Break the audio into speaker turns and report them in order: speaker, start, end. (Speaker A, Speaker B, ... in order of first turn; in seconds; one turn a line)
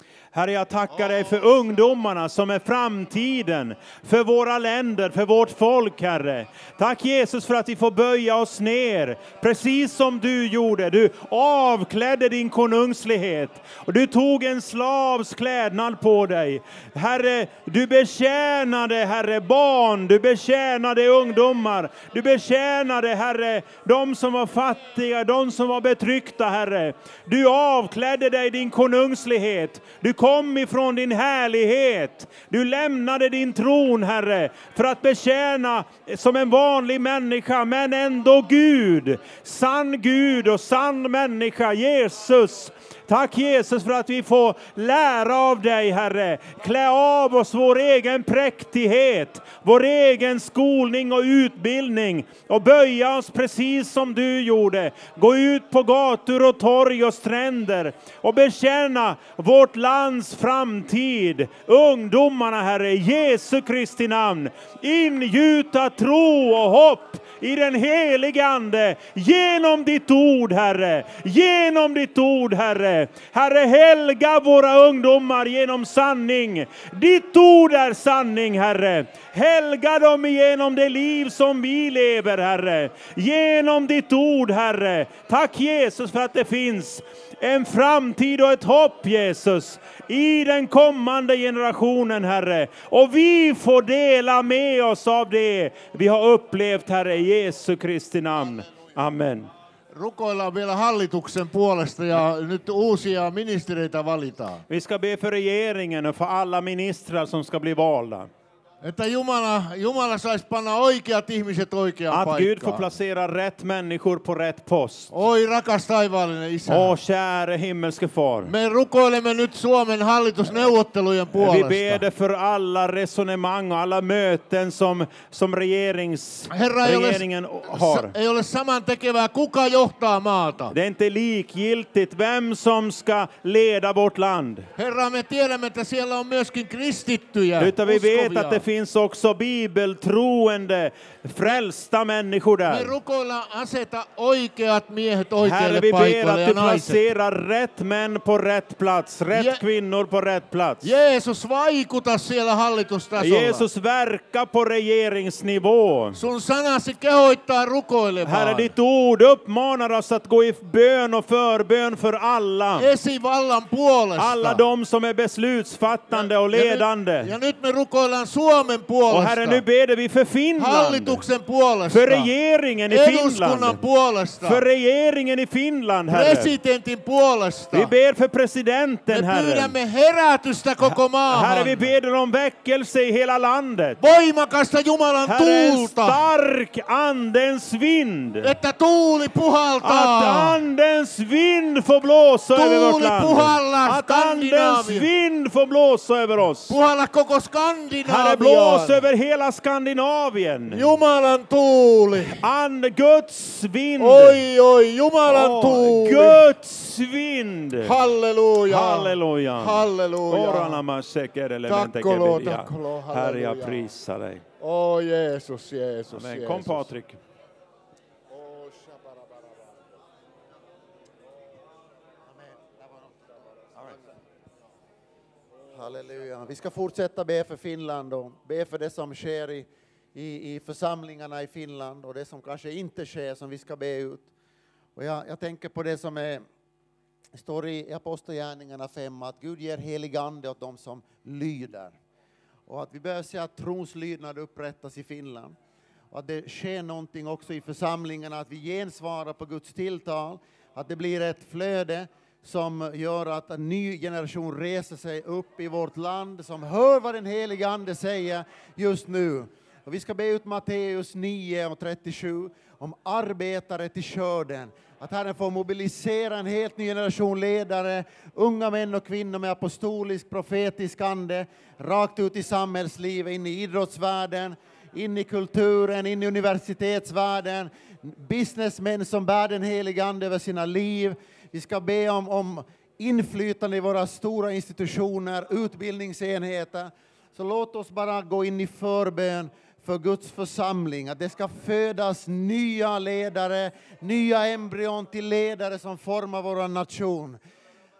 Speaker A: 0.3-99.5
Speaker B: 99.9-104.6
Speaker A: 104.7-108.3
Speaker B: 108.8-112.9
Speaker A: 112.1-115.1
Speaker B: 115.1-117.0
Speaker A: 116.7-118.5
Speaker B: 118.5-122.0
Speaker A: 121.3-128.1
Speaker B: 126.5-130.7
Speaker A: 130.7-134.7
Speaker B: 134.8-138.6
Speaker A: 137.6-142.9
Speaker B: 142.7-147.0
Speaker A: 145.4-150.9
Speaker B: 149.3-149.6
Speaker B: 150.8-153.7
Speaker A: 153.2-156.2
Speaker B: 156.1-158.7
Speaker A: 158.2-162.9
Speaker B: 162.8-164.6
Speaker A: 164.2-167.3
Speaker B: 166.1-169.6
Speaker A: 169.1-171.2
Speaker B: 170.6-172.3
Speaker A: 171.9-173.8
Speaker B: 172.9-174.6
Speaker A: 174.4-176.6
Speaker B: 176.1-177.9
Speaker A: 177.7-179.8
Speaker B: 179.1-181.9
Speaker A: 180.8-184.0
Speaker B: 184.0-186.2
Speaker A: 185.2-188.5
Speaker B: 188.4-190.6
Speaker A: 189.8-196.8
Speaker B: 192.5-195.1
Speaker B: 196.7-199.0
Speaker A: 198.0-200.9
Speaker B: 200.7-202.4
Speaker A: 202.2-204.4
Speaker B: 204.0-206.4
Speaker A: 205.2-207.9
Speaker B: 207.8-210.8
Speaker A: 208.7-214.4
Speaker B: 211.7-213.9
Speaker B: 214.6-216.9
Speaker A: 216.1-217.2
Speaker B: 218.3-219.6
Speaker C: 222.3-223.1
Speaker C: 225.7-234.3
Speaker C: 234.9-236.4
Speaker C: 237.3-242.0
Speaker C: 242.7-245.6
Speaker C: 246.1-297.4